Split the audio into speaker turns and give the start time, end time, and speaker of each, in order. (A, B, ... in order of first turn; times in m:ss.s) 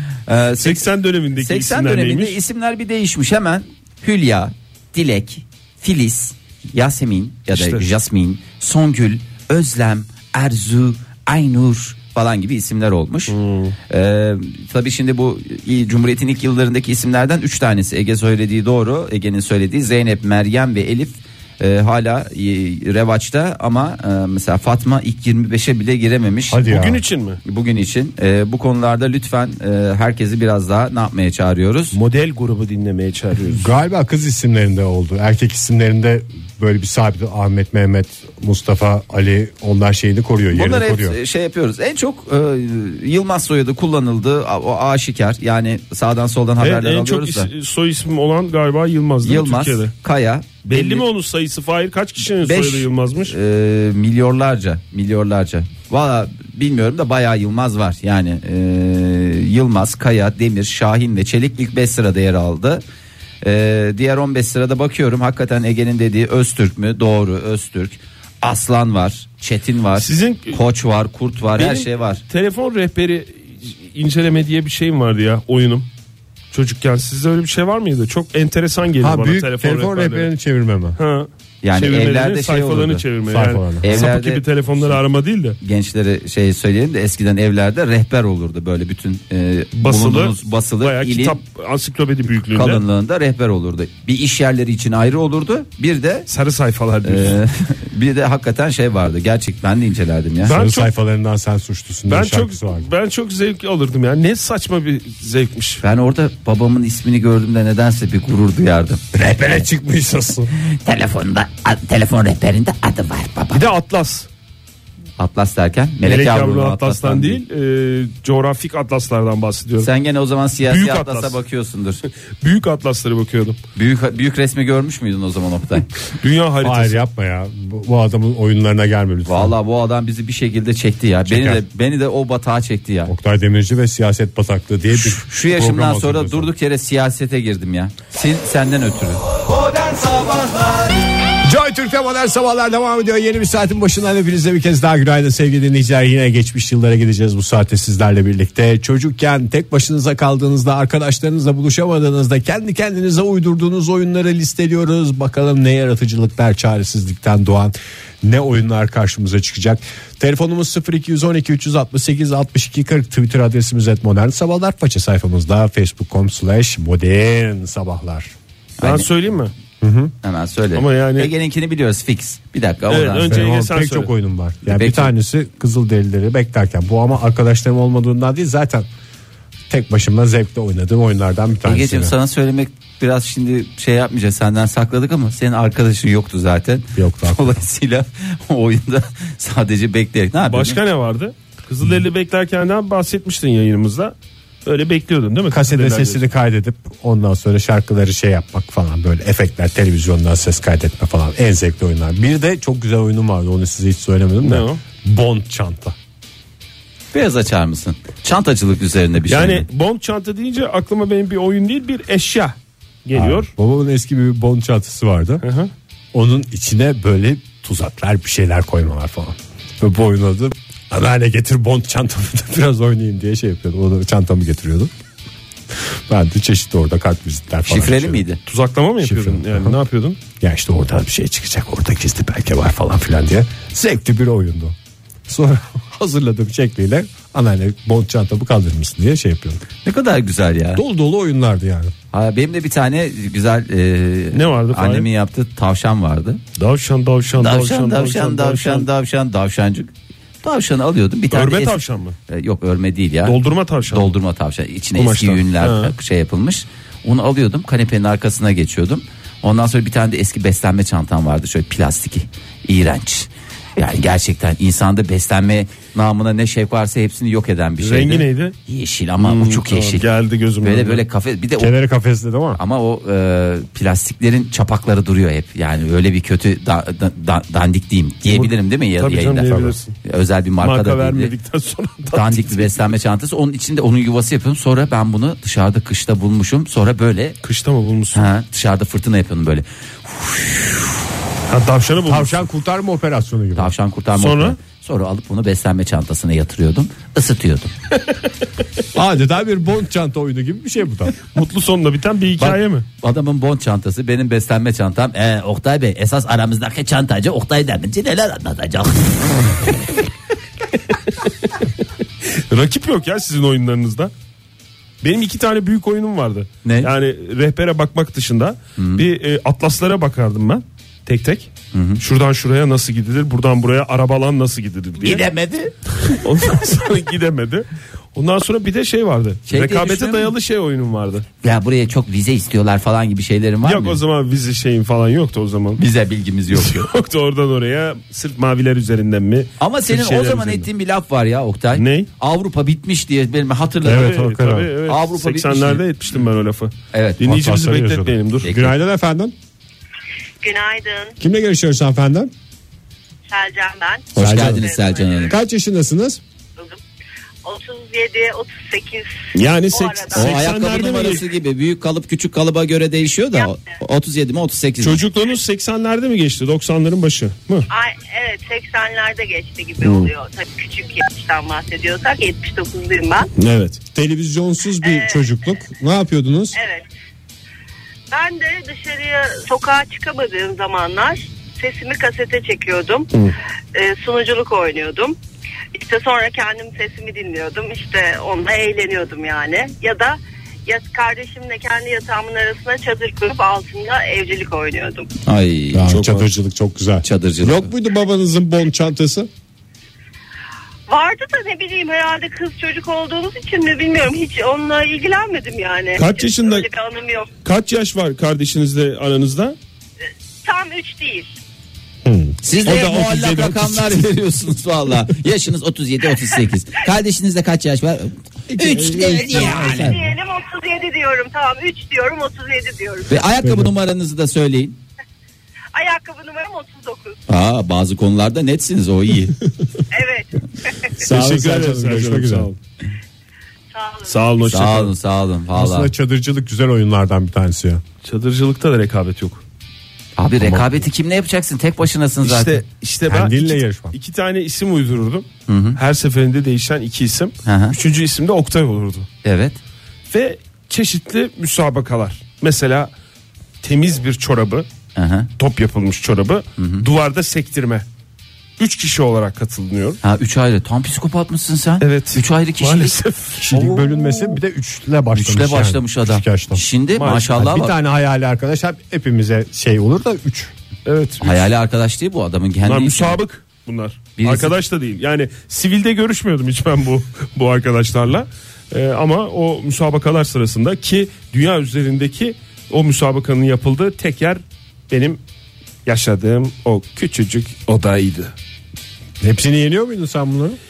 0:00.3-0:13.4 A
0:00.6-0:02.4 B
0:07.5-0:07.9 B
0:13.3-0:13.8 B
0:13.9-0:26.6 A
0:26.5-0:27.0 C
0:26.6-0:27.4 B
0:27.4-0:32.0 A
0:31.9-0:33.7 B
0:33.4-0:41.2 C
0:40.5-0:47.5 A
0:46.6-0:49.9 B
0:49.2-0:51.0 A
0:50.7-0:53.3 B
0:52.4-1:02.8 A
1:03.4-1:12.2 A
1:10.0-1:10.6 B
1:11.6-1:15.9 B
1:16.5-1:20.3 B
1:19.0-1:21.0 C
1:21.0-1:25.6 B
1:21.6-1:23.0 A
1:23.3-1:24.1 C
1:23.8-1:25.0 A
1:25.6-1:31.4 A
1:29.8-1:32.8 B
1:32.5-1:36.3 A
1:36.3-1:37.4 B
1:37.0-1:40.6 A
1:40.4-1:40.9 B
1:40.5-1:42.9 C
1:42.1-1:45.8 B
1:45.8-1:49.7 A
1:49.1-1:50.5 C
1:50.6-1:53.6 A
1:53.5-1:54.3 B
1:55.2-1:57.4 A
1:56.0-1:59.9 B
1:59.8-2:02.0 A
2:00.6-2:01.4 B
2:02.4-2:03.6 B
2:03.8-2:05.9 A
2:06.1-2:07.0 B
2:06.6-2:09.5 C
2:09.3-2:13.1 A
2:11.2-2:11.6 C
2:13.1-2:16.5 C
2:14.9-2:20.8 A
2:21.4-2:48.3 C
2:48.8-2:49.1 A
2:48.8-2:49.5 B
2:49.8-2:50.1 C
2:50.2-2:53.4 A
2:50.7-2:51.3 B
2:52.9-2:54.1 B
2:53.3-2:58.9 C
2:54.6-2:55.1 A
2:59.7-3:02.1 C
3:01.6-3:10.8 A
3:06.9-3:07.6 C
3:10.4-3:16.2 B
3:15.5-3:26.0 C
3:24.4-3:24.8 B
3:27.1-3:29.6 A
3:29.3-3:33.5 B
3:33.1-3:35.4 C
3:35.4-3:35.7 B
3:36.1-3:44.9 C
3:45.9-3:48.2 C
3:47.7-3:48.4 A
3:48.4-3:50.2 B
3:49.0-3:49.8 C
3:50.4-3:54.7 C
3:55.3-3:59.6 C
3:59.8-4:00.8 A
4:00.7-4:01.9 C
4:02.1-4:06.4 A
4:04.3-4:05.1 B
4:06.6-4:08.9 B
4:07.4-4:09.9 A
4:10.4-4:13.4 A
4:11.3-4:12.2 B
4:13.2-4:14.1 B
4:13.9-4:30.0 A
4:15.0-4:15.9 B
4:27.8-4:28.6 B
4:29.2-4:31.0 B
4:30.6-4:31.7 A
4:31.6-4:32.6 C
4:32.6-4:41.3 A
4:38.3-4:39.9 B
4:40.6-4:42.8 B
4:42.1-4:47.4 A
4:47.4-4:48.3 B
4:48.1-4:50.8 A
4:51.5-4:52.4 B
4:52.1-4:53.7 C
4:53.6-4:57.7 A
4:54.1-4:54.6 B
4:58.9-5:01.1 C
5:01.3-5:02.8 B
5:02.4-5:09.5 A
5:11.2-5:11.5 B
5:12.2-5:14.1 B
5:15.0-5:25.2 B
5:16.6-5:16.9 A
5:18.8-5:19.0 A
5:21.7-5:22.0 A
5:25.0-5:25.7 A
5:26.1-5:31.2 B
5:29.5-5:30.3 A
5:31.4-5:34.0 A
5:33.6-5:35.8 B
5:35.8-5:36.9 A
5:36.5-5:40.7 B
5:39.6-5:44.2 A
5:41.7-5:42.1 B
5:43.8-5:44.7 C
5:43.8-5:48.5 B
5:44.9-5:45.8 A
5:46.9-5:47.2 A
5:47.2-5:49.3 C
5:48.4-5:48.7 A
5:50.4-5:51.2 D
5:51.2-5:52.3 C
5:53.3-5:55.4 D
5:54.1-5:55.3 A
5:54.2-5:54.6 C
5:55.3-5:56.2 C
5:57.4-5:59.1 D
5:59.3-6:01.2 B
5:59.7-6:00.3 D
6:00.1-6:05.0 A
6:03.3-6:03.6 D
6:04.8-6:07.7 B
6:07.7-6:13.3 D
6:09.8-6:10.1 B
6:13.4-6:13.8 B
6:13.9-6:16.6 C
6:14.8-6:15.4 D
6:16.5-6:16.8 D
6:18.1-6:23.1 D
6:23.7-6:25.2 D
6:25.7-6:35.1 D
6:35.2-6:36.0 A
6:35.7-6:39.3 C
6:35.9-6:36.2 B
6:37.0-6:37.7 A
6:40.9-6:47.3 D
6:45.9-6:46.7 B
6:47.4-6:49.6 B
6:50.4-6:51.3 D
6:52.0-6:52.4 C
6:52.4-7:00.0 A
6:52.6-6:54.1 B
6:58.6-7:00.1 C
6:58.8-6:59.7 B
6:59.2-7:03.1 D
7:03.1-7:04.8 A
7:03.4-7:03.7 C
7:05.7-7:07.2 D
7:07.3-7:09.4 A
7:09.9-7:11.0 D
7:11.0-7:12.5 C
7:11.0-7:12.6 B
7:13.7-7:14.3 D
7:14.0-7:14.9 B
7:14.5-7:15.9 A
7:15.5-7:17.8 C
7:18.0-7:19.4 B
7:20.2-7:22.6 A
7:22.2-7:29.1 B
7:23.1-7:24.0 C
7:25.5-7:25.8 A
7:27.4-7:27.8 A
7:29.2-7:29.6 A
7:30.1-7:32.9 B
7:33.6-7:34.7 B
7:35.0-7:35.3 A
7:35.4-7:37.8 B
7:36.6-7:36.8 A
7:38.6-7:40.0 B
7:40.0-7:43.0 A
7:41.8-7:44.4 B
7:43.4-7:46.6 C
7:45.1-7:47.8 A
7:47.0-7:47.4 B
7:47.3-7:50.5 C
7:50.8-7:51.5 B
7:51.2-7:53.2 A
7:52.6-8:05.2 B
7:54.2-7:54.5 A
8:05.8-8:08.3 B
8:09.2-8:10.6 C